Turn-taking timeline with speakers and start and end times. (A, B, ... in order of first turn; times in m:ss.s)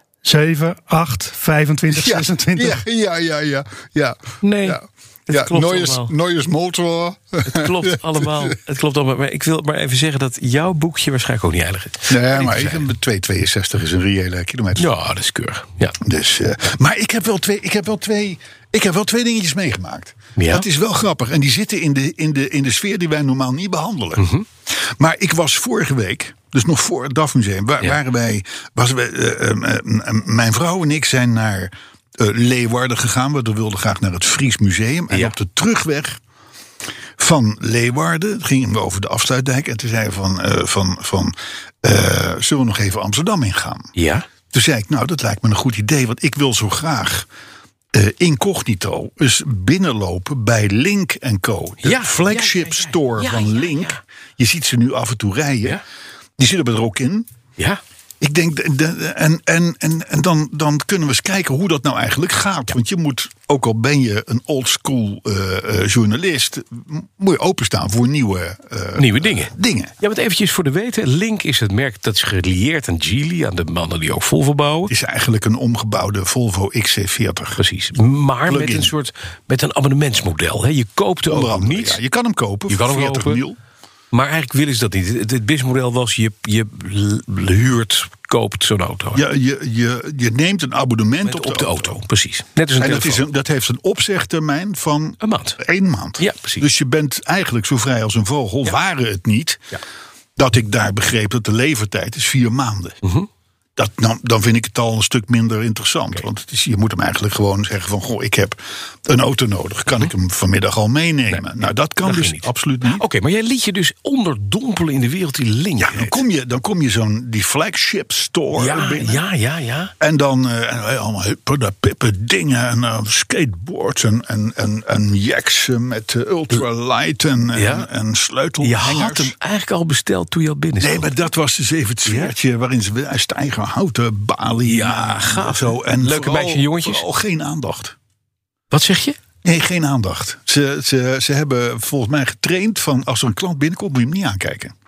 0:00.2-0:02.8 A
0:01.9-0:08.5 B
0:04.4-0:06.1 C
0:07.4-0:12.8 C
0:12.1-0:14.9 B
0:14.8-0:16.0 C
0:16.0-0:36.2 B
0:20.4-0:20.6 C
0:24.2-0:24.4 C
0:37.2-0:43.9 B
0:43.9-0:44.2 C
0:44.5-0:47.3 B
0:47.9-0:55.8 B
0:51.8-0:54.0 C
0:56.4-0:57.3 B
0:58.2-1:09.9 B
1:09.0-1:14.9 C
1:14.9-1:17.6 B
1:17.6-1:22.0 C
1:18.5-1:18.9 B
1:21.3-1:23.6 B
1:22.7-1:23.4 C
1:24.1-1:29.2 C
1:29.1-1:32.0 B
1:31.2-1:33.2 C
1:32.8-1:39.6 B
1:35.2-1:35.6 C
1:36.2-1:36.6 C
1:40.4-1:43.0 B
1:43.0-1:43.3 C
1:43.8-1:53.0 B
1:51.3-1:56.2 C
1:55.8-1:59.2 B
1:58.6-1:59.9 C
2:00.0-2:09.4 B
2:07.5-2:07.9 C
2:08.6-2:11.1 C
2:10.8-2:17.9 B
2:12.0-2:12.3 C
2:14.6-2:17.0 C
2:18.7-2:19.2 C
2:19.4-2:24.7 B